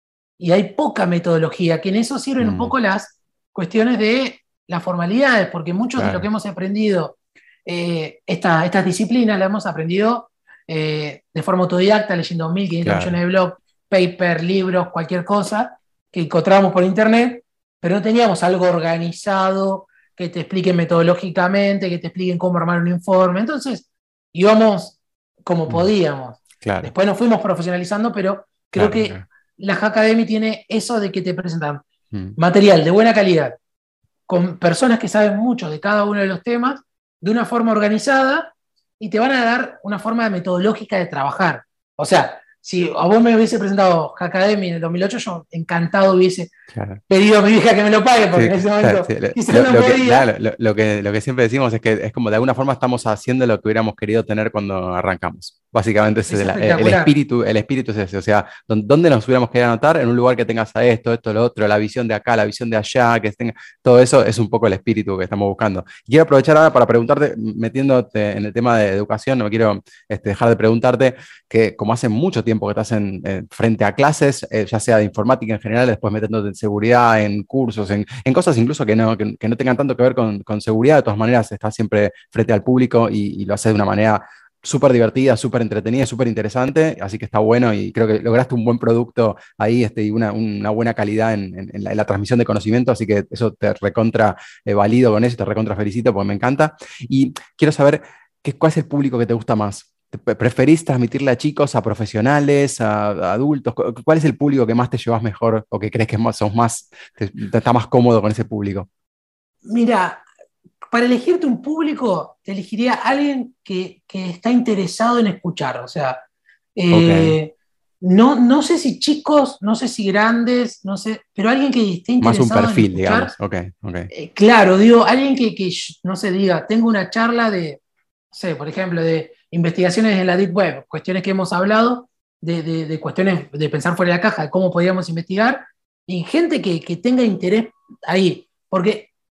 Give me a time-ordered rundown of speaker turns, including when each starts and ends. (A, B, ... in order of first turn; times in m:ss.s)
0:00.4-0:31.8 A
0:02.4-0:02.7 B
0:06.0-0:06.3 B
0:12.8-0:13.2 B
0:26.6-0:26.9 B
0:28.7-0:29.2 B
0:32.1-0:32.4 B
0:32.4-0:33.5 A
0:34.3-0:46.5 A
0:46.7-0:47.0 B
0:47.1-0:50.3 A
0:48.3-1:48.9 B
0:56.3-0:57.1 A
1:49.6-1:50.2 A
1:50.9-1:56.2 A
1:56.8-2:03.3 A
1:56.9-1:57.4 B
2:02.2-2:04.1 B
2:04.1-2:07.8 A
2:08.3-2:19.1 A